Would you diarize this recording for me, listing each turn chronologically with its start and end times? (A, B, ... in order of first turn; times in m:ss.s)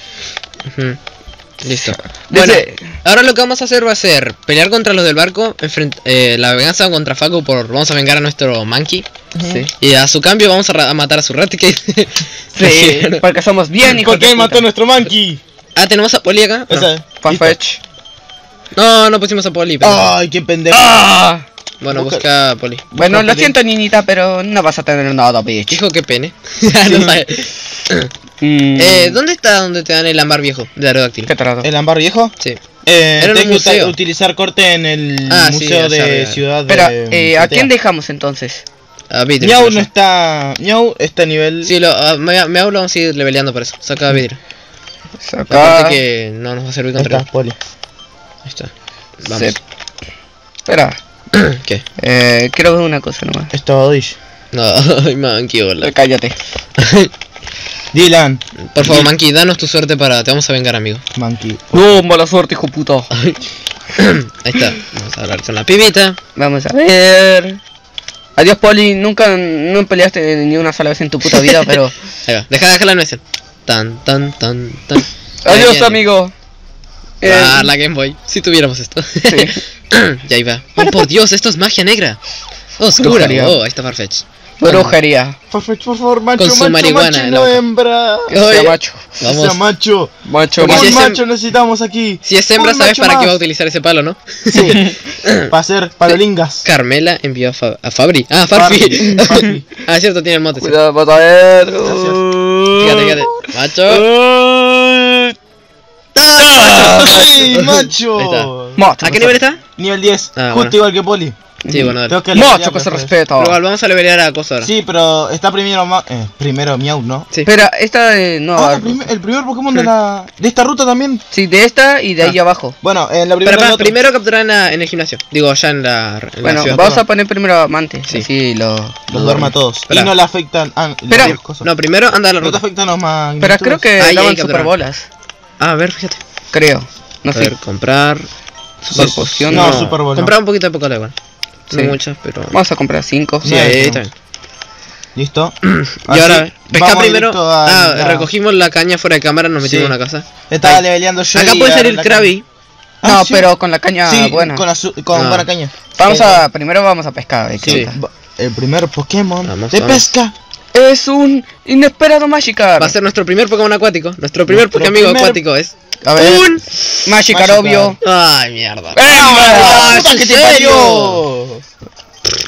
0:00.7-0:01.0 A
0:01.6-0:09.1 A
0:01.7-0:02.8 B
0:09.3-0:09.6 C
0:09.4-0:09.7 B
0:09.8-0:13.2 A
0:12.5-0:14.6 B
0:13.8-0:15.4 C
0:15.8-0:16.9 A
0:16.7-0:17.6 C
0:17.2-0:17.8 B
0:18.7-0:20.1 A
0:19.8-0:21.0 C
0:20.7-0:21.4 B
0:21.8-0:22.8 A
0:21.9-0:22.2 C
0:22.9-0:23.6 C
0:22.9-0:25.8 B
0:25.7-0:28.1 A
0:26.8-0:27.2 C
0:28.4-0:29.2 B
0:28.8-0:31.3 A
0:31.3-0:31.7 B
0:31.6-0:32.3 C
0:32.8-0:37.7 C
0:33.2-0:33.9 A
0:35.3-0:36.4 A
0:36.7-0:38.6 B
0:39.1-0:39.9 A
0:39.4-0:41.7 C
0:41.6-0:44.4 A
0:45.2-0:46.0 B
0:45.5-0:47.2 A
0:47.0-0:47.6 C
0:48.4-0:48.7 A
0:49.2-0:49.6 A
0:49.2-0:49.6 B
0:50.6-0:51.0 B
0:51.3-0:51.8 A
0:52.0-0:53.5 B
0:53.5-0:54.2 C
0:54.5-0:55.9 A
0:55.8-0:56.4 B
0:56.8-0:57.1 A
0:57.9-0:59.1 C
0:58.7-1:01.0 A
1:01.1-1:01.8 C
1:01.7-1:03.1 B
1:03.1-1:03.4 A
1:03.9-1:06.2 A
1:06.4-1:07.6 B
1:08.4-1:11.9 B
1:12.2-1:16.0 A
1:15.4-1:16.3 B
1:17.2-1:17.7 B
1:17.2-1:22.2 A
1:19.2-1:19.6 B
1:20.8-1:21.1 B
1:22.8-1:24.9 A
1:23.0-1:23.6 B
1:24.6-1:25.4 B
1:25.5-1:28.4 C
1:26.4-1:27.6 A
1:28.3-1:29.6 A
1:28.3-1:29.2 B
1:29.2-1:33.4 C
1:30.3-1:31.1 B
1:30.6-1:31.2 A
1:32.2-1:35.5 A
1:34.5-1:36.6 C
1:36.6-1:40.8 A
1:38.5-1:39.6 C
1:39.0-1:39.5 B
1:40.6-1:45.3 B
1:41.8-1:42.2 C
1:42.8-1:44.1 A
1:46.2-1:48.5 A
1:46.4-1:47.5 B
1:46.7-1:48.8 C
1:48.8-1:49.4 B
1:49.0-1:49.6 A
1:49.8-1:51.4 C
1:50.4-1:50.8 A
1:51.6-1:53.6 B
1:51.7-1:52.2 A
1:52.1-1:53.1 C
1:53.4-1:54.7 A
1:54.6-1:57.3 C
1:57.4-1:59.0 B
1:58.6-2:01.2 C
2:01.3-2:02.8 B
2:02.8-2:03.9 C
2:03.4-2:07.0 A
2:06.4-2:09.5 B
2:06.7-2:07.0 C
2:09.1-2:11.6 C
2:09.9-2:10.1 A
2:11.1-2:11.4 B
2:11.6-2:12.6 A
2:12.4-2:13.8 C
2:13.4-2:15.0 B
2:14.0-2:14.7 A
2:15.6-2:16.2 A
2:16.5-2:17.5 B
2:17.3-2:18.3 A
2:18.8-2:19.8 B
2:18.9-2:20.3 C
2:18.9-2:21.1 A
2:21.7-2:22.6 A
2:21.7-2:22.0 B
2:22.5-2:23.6 B
2:23.4-2:24.0 C
2:23.4-2:24.1 A
2:25.1-2:28.3 C
2:25.6-2:30.8 A
2:29.6-2:29.9 C
2:30.5-2:32.3 C
2:31.3-2:32.4 A
2:33.0-2:33.5 C
2:33.0-2:34.6 B
2:34.0-2:36.4 C
2:35.1-2:35.5 A
2:36.0-2:38.0 B
2:37.6-2:40.3 C
2:39.4-2:40.1 A
2:40.7-2:42.9 B
2:42.8-2:46.8 A
2:44.5-2:45.4 C
2:46.0-2:46.5 B
2:47.0-2:48.0 B
2:47.3-2:48.0 C
2:48.0-2:51.2 A
2:48.9-2:50.9 B
2:49.0-2:51.7 C